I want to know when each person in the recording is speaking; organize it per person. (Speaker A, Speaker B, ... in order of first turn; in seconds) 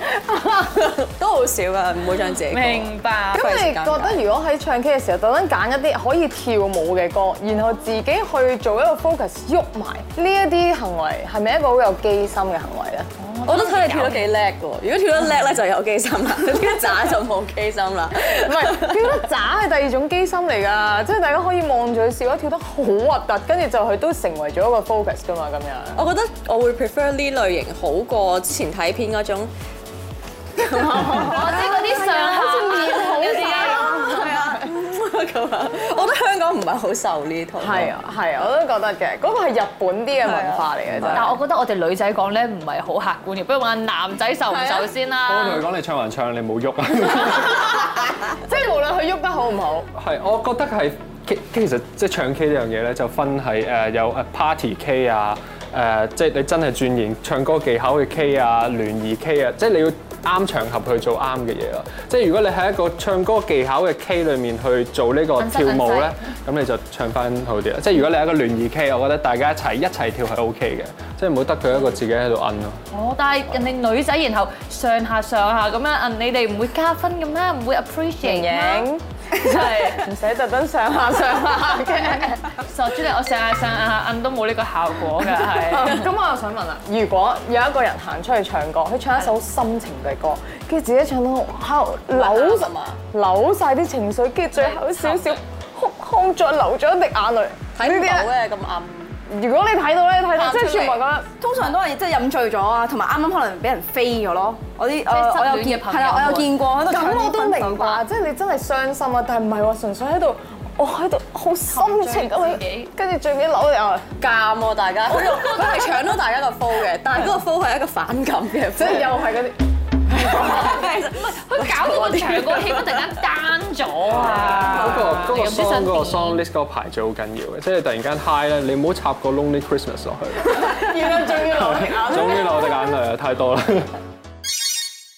Speaker A: 0.3-4.2, 13.5-19.1, 25.9-29.5, 30.6-31.6, 33.1-37.9, 40.2-40.7, 44.5-44.9, 92.1-93.0, 97.8-99.2, 100.3-101.0, 114.2-119.1, 120.2-123.1
Speaker B: 2.5-3.5, 13.2-14.2, 31.2-34.0, 41.1-45.6, 65.4-66.2, 72.9-80.1, 82.6-86.0, 94.5-95.4, 105.1-106.5, 111.7-112.9, 120.4-126.4
Speaker C: 3.3-13.1, 18.4-26.0, 30.6-34.6, 37.6-41.4, 48.3-49.9, 78.2-82.4, 85.7-98.3, 99.3-101.3, 106.8-114.1, 118.8-119.6, 120.1-120.7, 130.6-132.9
Speaker D: 45.3-47.9, 50.0-72.8, 124.1-133.9
Speaker E: 101.4-108.0